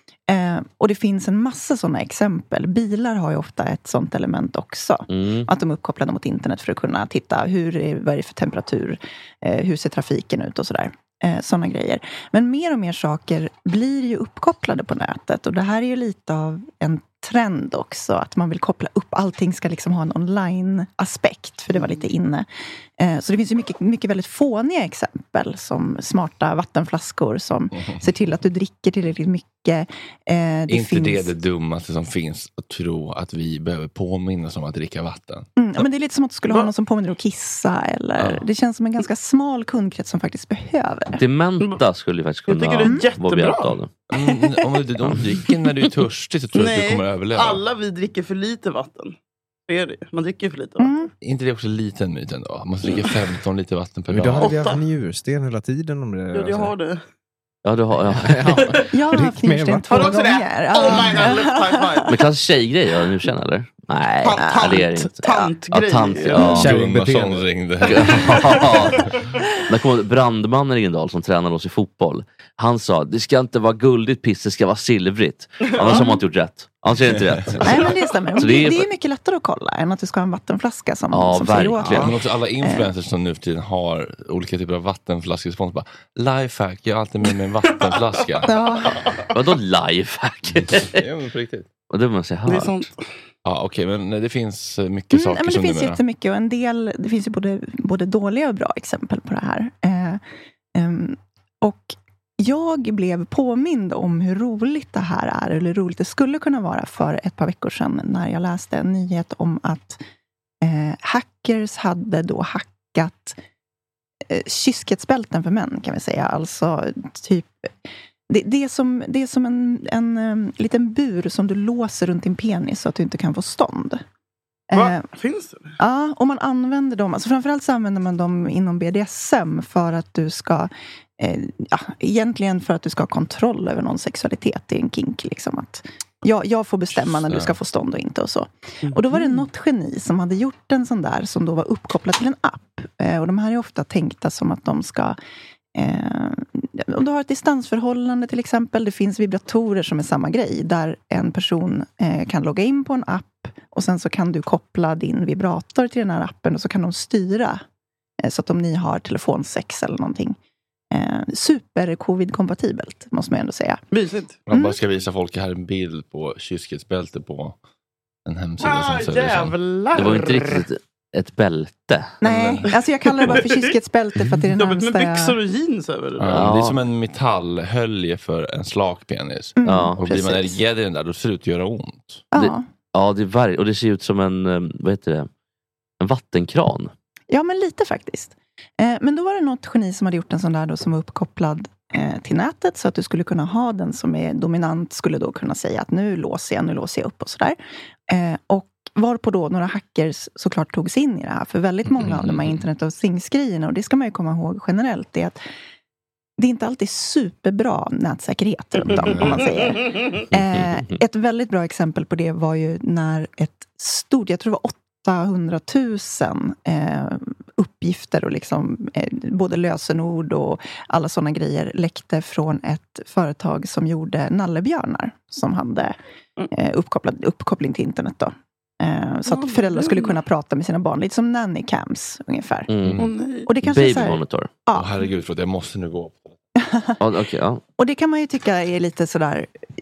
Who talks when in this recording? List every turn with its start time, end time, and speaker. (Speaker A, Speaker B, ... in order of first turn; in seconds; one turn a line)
Speaker A: 0.3-22.5
Speaker B: 5.1-5.5
Speaker C: 21.7-22.1
Speaker A: 23.0-31.3
Speaker D: 27.8-28.0
Speaker D: 30.7-35.5
Speaker A: 35.6-41.2
Speaker D: 38.2-38.4
Speaker B: 41.2-43.9
Speaker C: 42.5-43.8
Speaker D: 44.1-47.6
Speaker C: 46.5-49.1
Speaker C: 49.7-50.9
Speaker A: 50.8-51.1
Speaker D: 51.2-54.6
Speaker E: 54.1-56.7
Speaker C: 54.4-54.8
Speaker C: 56.3-57.0
Speaker B: 57.6-58.7
Speaker E: 58.1-60.2
Speaker A: 58.9-62.1
Speaker C: 59.9-62.2
Speaker B: 62.1-66.8
Speaker C: 64.2-66.6
Speaker A: 64.4-64.8
Speaker E: 66.4-67.5
Speaker D: 66.5-69.1
Speaker B: 67.9-69.1
Speaker B: 69.7-78.9
Speaker C: 75.7-76.1
Speaker A: 75.8-76.2
Speaker A: 77.6-82.9
Speaker B: 81.1-82.1
Speaker D: 81.9-88.6
Speaker C: 87.7-88.2
Speaker A: 88.5-89.1
Speaker C: 88.9-89.3
Speaker B: 89.3-91.0
Speaker D: 90.7-91.7
Speaker B: 91.9-92.8
Speaker C: 92.5-93.1
Speaker D: 93.5-96.0
Speaker A: 95.1-100.2
Speaker A: 100.8-110.0
Speaker A: 110.6-113.4
Speaker A: 114.3-117.5
Speaker A: 118.3-124.0
Speaker A: 124.7-125.1
Speaker C: 124.7-125.8
Speaker A: 125.8-145.2
Speaker D: 137.0-137.5
Speaker C: 138.8-139.5
Speaker A: 145.8-157.6
Speaker A: 158.2-160.4
Speaker A: 160.9-163.8
Speaker C: 163.9-164.4
Speaker D: 164.5-167.6
Speaker A: 164.5-164.8
Speaker D: 168.2-169.6
Speaker C: 168.6-170.7
Speaker B: 169.9-172.2
Speaker A: 172.2-175.4
Speaker D: 172.2-172.7
Speaker C: 172.7-173.7
Speaker C: 174.6-176.5
Speaker D: 176.2-182.2
Speaker B: 176.3-176.8
Speaker A: 179.6-180.6
Speaker B: 179.6-180.1
Speaker A: 182.3-182.7
Speaker B: 182.3-185.3
Speaker B: 186.0-186.9
Speaker A: 187.3-197.6
Speaker A: 198.1-205.4
Speaker B: 202.0-202.6
Speaker A: 206.4-226.0
Speaker C: 208.9-210.2
Speaker B: 210.3-211.0
Speaker A: 226.5-232.7
Speaker C: 229.3-230.2
Speaker B: 232.7-233.1
Speaker D: 232.8-233.1
Speaker C: 233.0-233.5
Speaker A: 233.5-235.1
Speaker B: 233.6-234.5
Speaker D: 234.7-236.3
Speaker A: 236.6-237.0
Speaker B: 237.0-237.6
Speaker A: 237.8-239.5